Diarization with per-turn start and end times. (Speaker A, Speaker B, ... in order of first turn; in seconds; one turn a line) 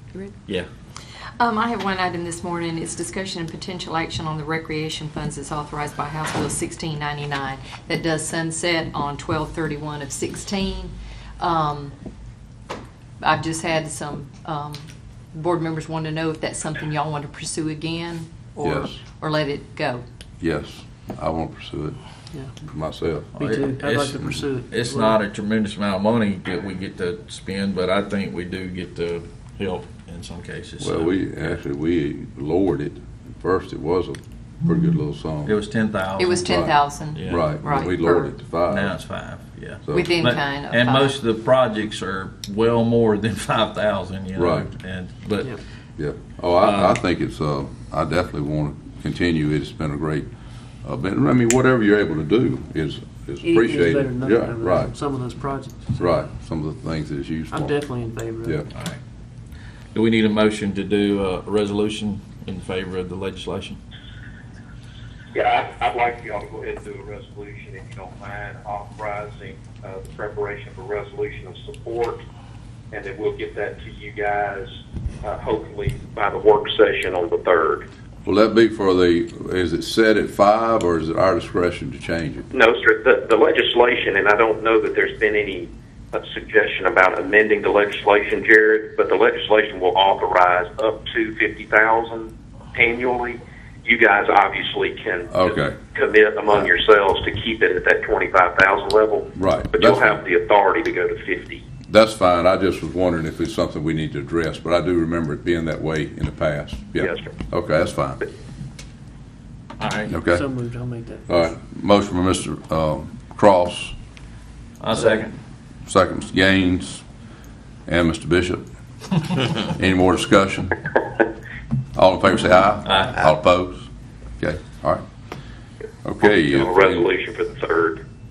Speaker A: 1.4-11.9
Speaker A: 13.2-20.0
Speaker B: 18.6-19.0
Speaker B: 20.4-22.0
Speaker B: 22.6-23.3
Speaker C: 23.3-31.6
Speaker D: 23.4-25.2
Speaker B: 30.8-35.6
Speaker C: 35.5-37.5
Speaker A: 36.2-38.3
Speaker B: 37.2-39.0
Speaker C: 38.7-45.6
Speaker A: 39.9-41.2
Speaker B: 44.4-44.7
Speaker B: 46.0-50.3
Speaker C: 46.6-47.0
Speaker B: 50.8-54.9
Speaker D: 53.4-56.1
Speaker B: 56.0-57.8
Speaker D: 57.5-58.6
Speaker C: 58.7-59.0
Speaker C: 59.9-63.8
Speaker E: 65.3-72.2
Speaker E: 72.9-77.8
Speaker B: 78.2-82.5
Speaker E: 82.5-101.6
Speaker B: 95.3-95.8
Speaker B: 99.3-100.2
Speaker B: 101.9-108.2
Speaker E: 107.0-107.3
Speaker C: 109.8-110.1
Speaker B: 110.1-110.5
Speaker D: 110.2-111.4
Speaker B: 111.3-113.9
Speaker C: 114.8-115.3
Speaker B: 115.9-117.0
Speaker B: 117.9-118.6
Speaker B: 119.6-120.9
Speaker B: 121.9-123.9
Speaker C: 122.8-123.2
Speaker B: 124.4-125.0
Speaker B: 126.0-127.1
Speaker E: 126.2-128.0